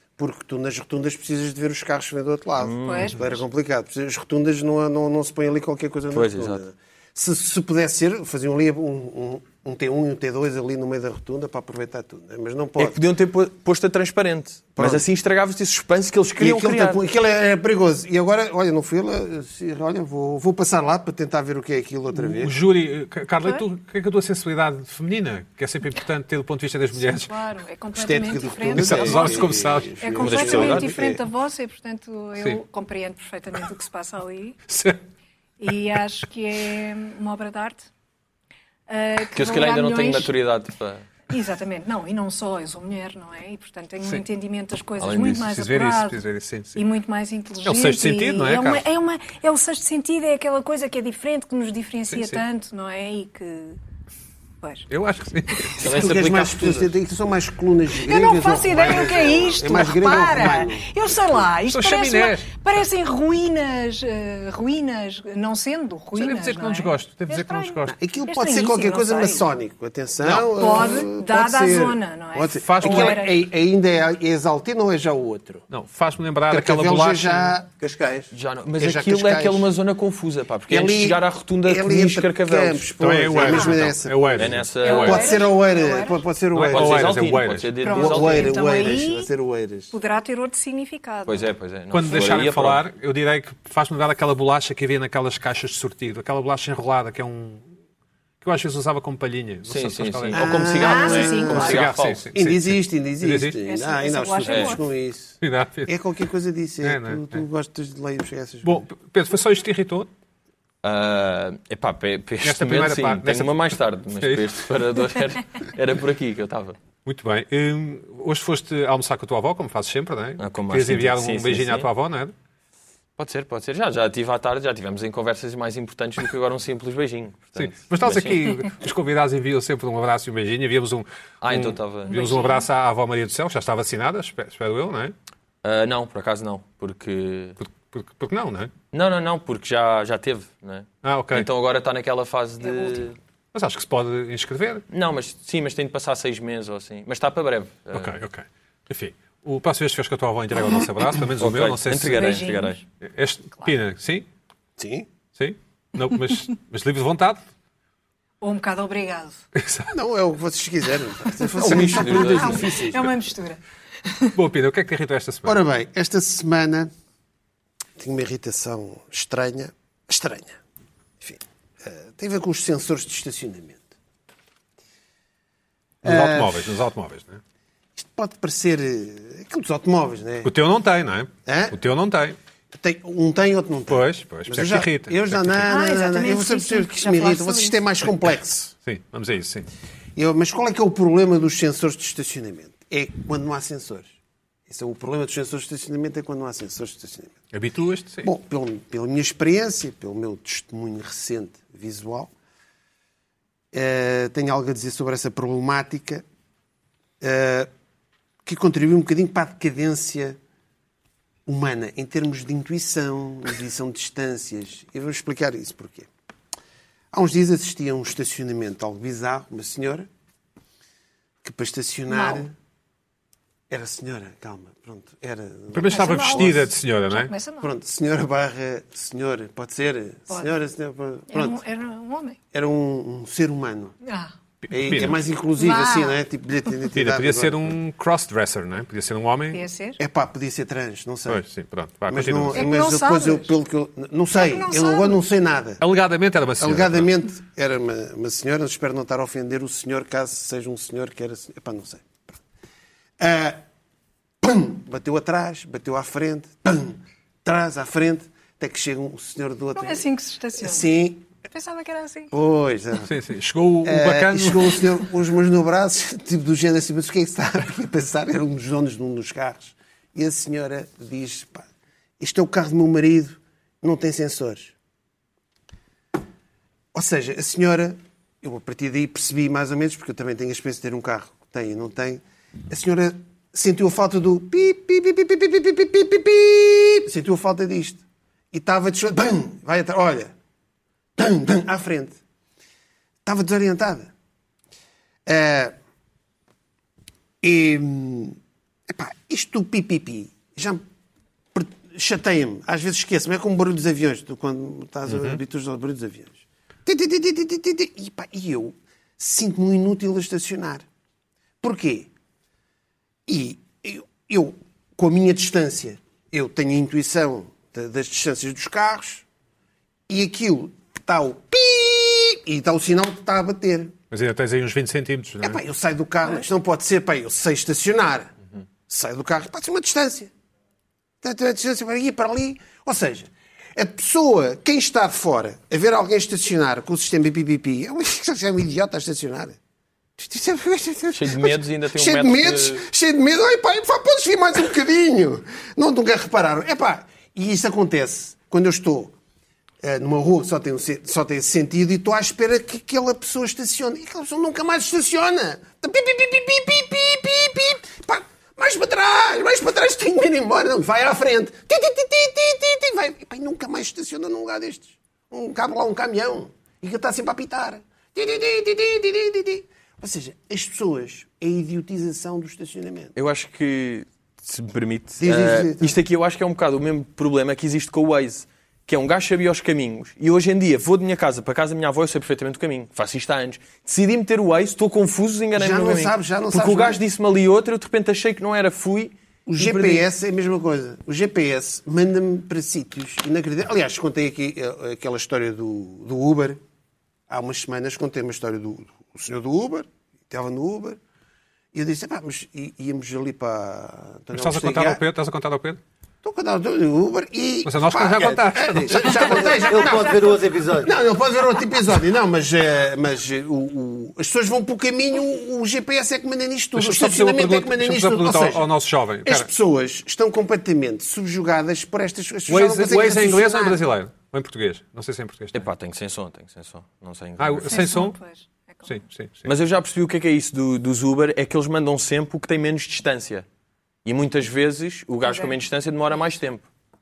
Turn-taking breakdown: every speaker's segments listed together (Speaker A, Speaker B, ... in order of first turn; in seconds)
Speaker A: 0.2-13.0, 14.8-15.0, 16.4-22.5, 27.9-31.2, 55.8-60.9, 67.9-75.7, 76.5-77.7, 78.8-79.7, 80.7-87.2, 87.8-89.9, 100.3-108.9, 154.8-155.1, 159.9-163.0, 165.4-166.9, 168.0-170.6, 171.2-173.9, 176.0-176.6, 178.0-180.5, 181.4-181.8, 182.7-188.7, 190.2-194.1, 194.7-197.3, 198.2-202.3, 203.7-206.2, 207.2-207.7, 208.4-210.4, 211.4-216.1, 217.1-220.1, 221.4-222.5, 223.7-226.6, 227.6-231.6, 232.5-233.9, 234.7-237.8, 240.0-241.4, 242.1-245.8, 246.6-252.4, 253.2-253.6, 254.4-260.1, 260.6-261.3, 262.3-263.1, 263.8-271.6, 272.2-274.7, 276.9-290.3, 291.2-292.1, 293.2-294.1, 295.2-295.7, 297.4-298.4, 298.9-300.8, 301.5-310.8, 311.6-312.1, 313.3-319.2, 320.1-323.9, 325.4-328.3, 328.9-330.3, 331.2-339.6, 340.2-349.1, 349.8-373.1, 375.2-376.0, 385.5-387.0, 389.5-396.6, 397.3-401.0, 401.7-405.0, 406.2-418.7, 419.2-423.9
Speaker B: 2.6-3.1, 6.1-6.6, 12.8-17.0, 30.2-30.9, 39.3-41.1, 45.0-45.4, 55.8-56.9, 78.3-82.9, 84.3-85.4, 86.7-88.9, 91.2-92.8, 99.7-102.3, 104.5-104.8, 110.8-116.8, 120.4-121.9, 123.2-128.4, 131.4-132.2, 135.6-137.6, 138.9-143.1, 144.9-148.2, 151.4-152.8, 161.6-162.7, 341.1-342.9, 373.1-390.0, 425.5-427.9, 429.4-433.4, 434.0-436.7
Speaker C: 2.8-3.4, 27.0-34.6, 35.6-37.9, 38.9-40.3, 41.3-46.2, 46.7-53.8, 54.6-54.9, 58.0-69.5, 70.5-73.4, 83.4-83.8, 84.8-86.2, 87.8-89.3, 89.9-91.5, 100.8-101.8, 103.6-104.8, 132.1-132.6, 142.6-143.1, 152.1-152.8, 158.4-159.4, 161.5-164.3, 185.7-187.8, 222.1-222.4, 225.9-227.7, 231.3-232.4, 234.0-234.3, 235.6-236.2, 239.5-240.0, 242.5-243.5, 244.3-245.2, 259.7-260.9, 261.4-262.3, 409.2-410.4, 427.7-428.9, 435.2-435.6
Speaker D: 22.1-27.3, 28.7-30.0, 34.7-35.0, 45.3-46.8, 47.6-48.8, 52.1-52.4, 54.9-55.8, 61.7-62.5, 66.1-68.0, 70.2-70.5, 72.5-73.2, 75.7-77.6, 83.0-85.3, 86.5-87.7, 91.9-97.7, 98.4-100.6, 101.5-103.6, 105.4-106.0, 106.8-107.4, 108.6-110.1, 112.4-114.5, 117.0-122.3, 127.5-135.1, 137.6-138.7, 141.0-141.5, 143.5-144.8, 147.9-152.4, 153.0-154.3, 155.3-157.4, 159.5-159.9, 164.3-165.6, 176.0-177.4, 180.4-182.4, 183.9-185.7, 188.8-189.7, 197.5-198.3, 225.7-227.3, 234.6-235.2, 236.9-239.6, 241.3-242.7, 245.8-247.1, 263.0-264.9, 305.1-305.4, 324.1-325.6, 404.3-405.8, 407.6-409.4, 416.7-419.5, 422.5-425.6, 427.4-428.2, 428.8-429.5
Speaker E: 77.8-78.3, 409.2-410.9